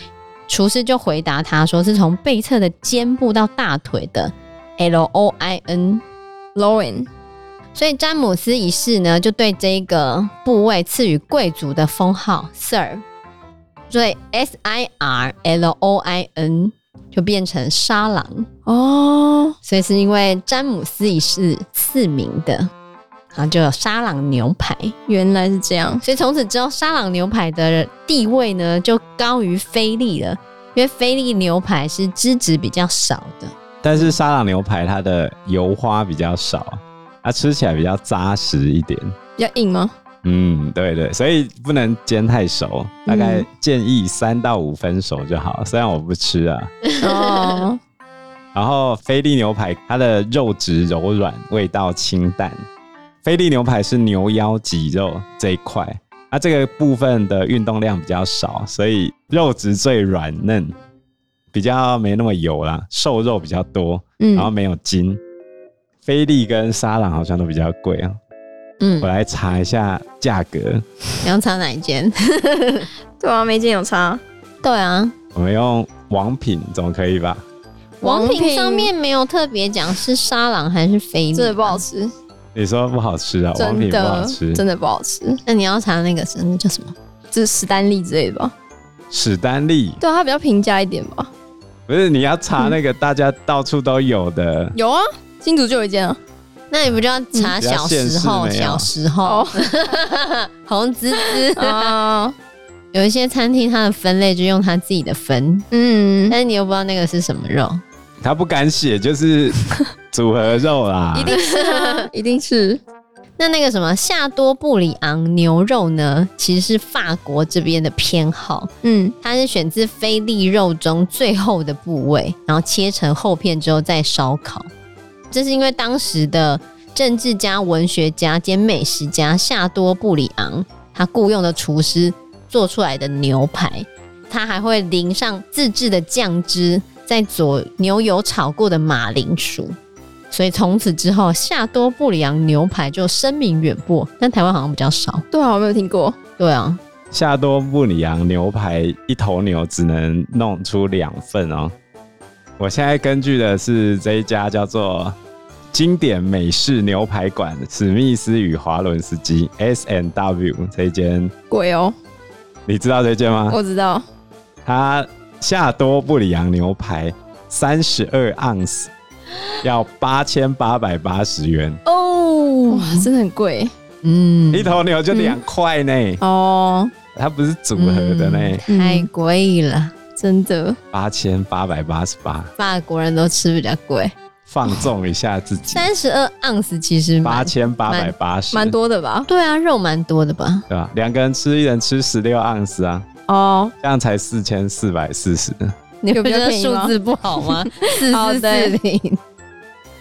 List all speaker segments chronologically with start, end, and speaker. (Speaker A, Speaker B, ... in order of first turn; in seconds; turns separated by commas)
Speaker A: 0.5-6.0, Speaker B: 6.6-7.1, Speaker A: 7.8-13.0, Speaker A: 13.9-18.5, Speaker B: 18.7-19.6, Speaker A: 19.6-22.7, Speaker A: 23.3-24.9, Speaker B: 25.1-26.0, Speaker A: 26.0-33.5, Speaker C: 33.8-39.1, Speaker B: 39.4-39.9, Speaker C: 40.2-46.7, Speaker B: 43.1-43.5, Speaker A: 46.9-47.6, Speaker B: 47.0-47.8, Speaker C: 48.5-52.6, Speaker C: 53.2-60.8, Speaker C: 61.5-65.2, Speaker B: 64.2-64.5, Speaker C: 66.0-68.2, Speaker A: 68.8-69.1, Speaker C: 69.0-70.8, Speaker A: 71.2-72.9, Speaker B: 73.2-74.2, Speaker A: 74.6-75.2, Speaker C: 75.3-77.5, Speaker B: 78.0-78.9, Speaker A: 78.0-81.8, Speaker B: 81.3-82.1, Speaker C: 82.5-84.6, Speaker B: 83.6-85.4, Speaker A: 85.5-86.9, Speaker B: 87.3-88.5, Speaker C: 89.1-90.0, Speaker B: 90.0-91.3, Speaker C: 91.9-94.8, Speaker B: 94.8-96.2, Speaker A: 96.7-102.0, Speaker C: 97.6-98.9, Speaker B: 99.2-99.6, Speaker B: 101.2-102.3, Speaker A: 102.9-105.7, Speaker B: 105.7-106.4, Speaker A: 106.3-107.8, Speaker C: 108.2-111.3, Speaker B: 111.1-112.8, Speaker A: 111.3-112.1, Speaker A: 113.4-118.7, Speaker B: 118.8-119.2, Speaker A: 119.2-124.7, Speaker A: 125.3-139.8, Speaker A: 140.3-145.2, Speaker B: 145.3-146.2, Speaker A: 146.4-146.8, Speaker C: 147.1-151.7, Speaker C: 152.6-155.2, Speaker C: 155.7-161.3, Speaker B: 161.5-161.9, Speaker C: 162.7-163.6, Speaker B: 163.5-164.1, Speaker C: 164.7-168.9, Speaker C: 169.6-171.8, Speaker A: 171.9-173.1, Speaker B: 172.7-173.7, Speaker A: 174.0-174.8, Speaker C: 174.5-176.2, Speaker B: 175.1-175.4, Speaker B: 176.2-176.9, Speaker C: 177.1-178.6, Speaker A: 177.8-179.9, Speaker B: 178.7-179.1, Speaker B: 180.2-180.8, Speaker C: 180.9-182.5, Speaker A: 182.6-184.1, Speaker C: 184.5-185.9, Speaker A: 185.7-188.1, Speaker C: 187.2-188.8, Speaker B: 188.5-189.3, Speaker A: 189.3-190.7, Speaker C: 190.7-193.1, Speaker B: 193.3-193.7, Speaker C: 193.8-195.8, Speaker A: 196.0-199.2, Speaker B: 196.1-198.8